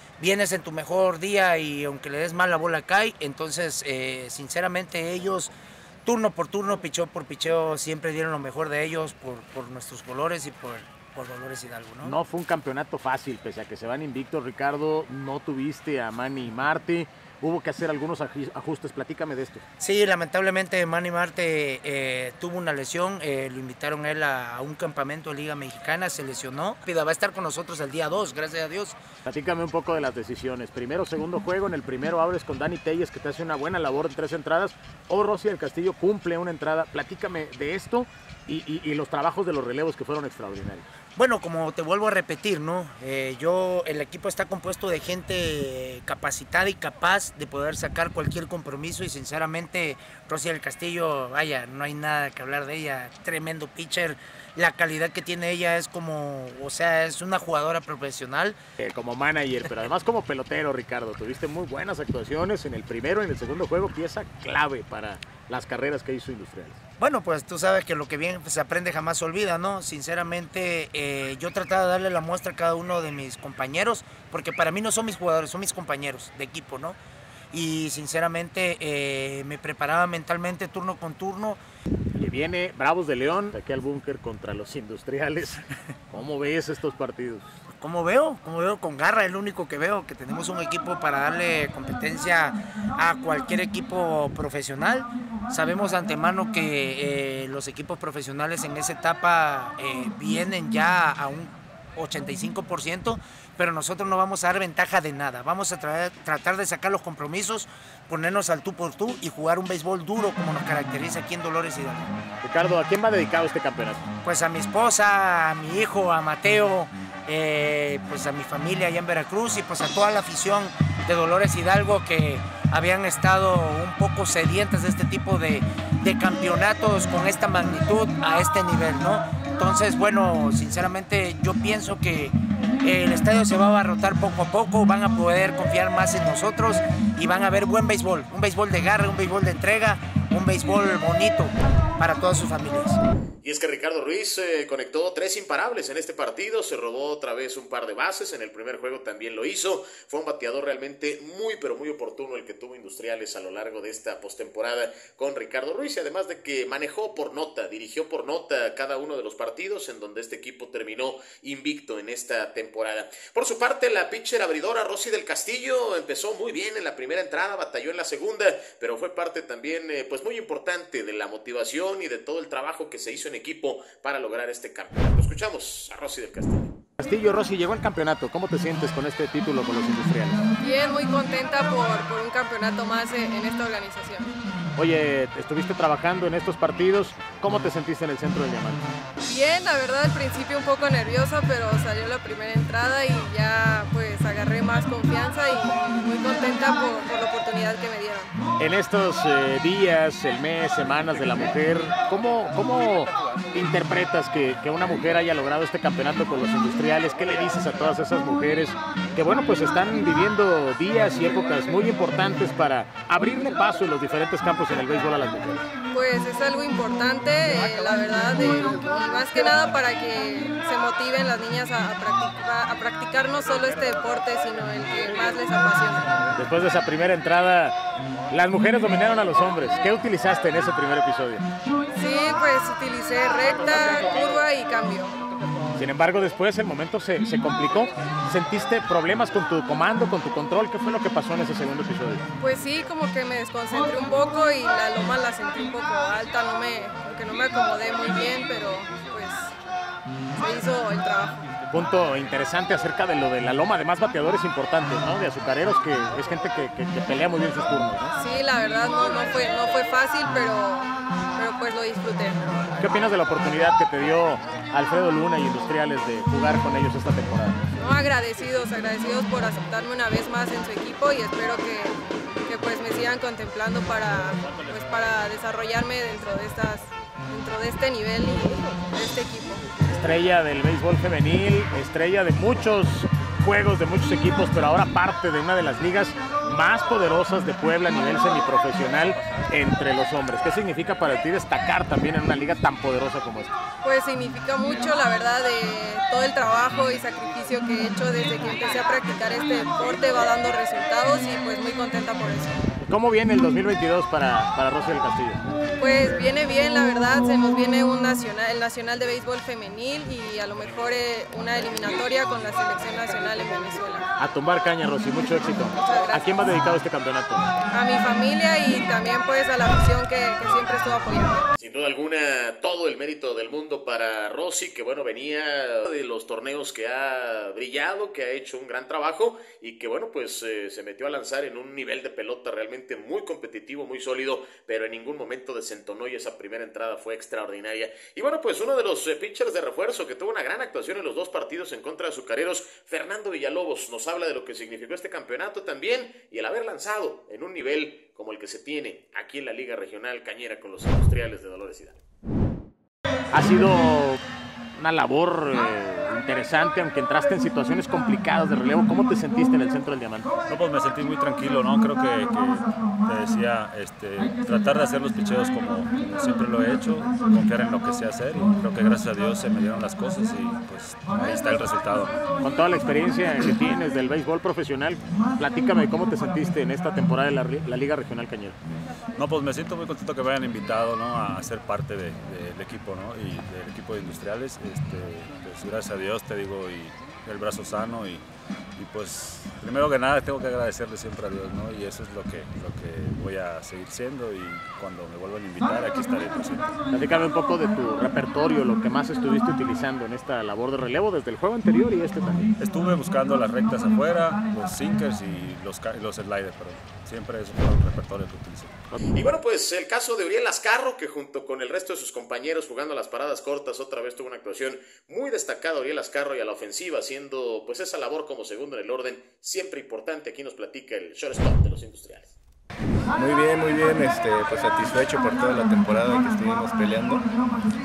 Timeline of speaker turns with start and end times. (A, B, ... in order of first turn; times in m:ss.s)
0:00.2-0:05.5 A
0:06.0-0:12.1 A
0:12.0-0:19.6 B
0:19.8-0:29.0 A
0:29.2-0:40.8 B
0:41.2-0:58.6 A
0:58.8-1:06.8 B
1:07.0-1:17.0 A
1:17.5-1:21.6 A
1:22.1-1:27.5 B
1:27.8-1:52.2 A
1:52.4-1:54.0 B
1:54.2-2:23.0 A
2:23.4-2:56.7 C
2:57.0-3:00.4 B
3:00.6-3:04.3 D
3:04.8-3:08.8 B
3:09.2-3:18.3 D
3:18.6-3:35.6 B
3:35.9-3:46.2 D
3:46.3-3:47.8 B
3:48.3-3:51.4 B
3:51.9-3:55.2 D
3:55.7-4:02.2 B
4:02.4-4:09.5 D
4:10.4-4:11.5 D
4:11.7-4:18.1 B
4:18.2-4:22.5 D
4:22.8-4:27.6 B
4:27.8-4:39.6 D
4:39.9-4:53.6 B
4:53.8-5:02.6 D
5:02.8-5:05.4 B
5:05.8-5:14.1 D
5:14.2-5:17.5 B
5:15.7-5:16.3 D
5:17.7-5:21.5 D
5:21.6-5:52.0 C
5:53.3-5:54.2 B
5:54.7-6:00.3 B
6:00.5-6:12.2 E
6:12.4-6:18.6 B
6:19.2-6:28.2 E
6:28.8-6:36.8 E
6:36.9-6:42.5 B
6:42.6-6:48.8 E
6:49.1-7:02.3 C
7:03.1-7:07.2 F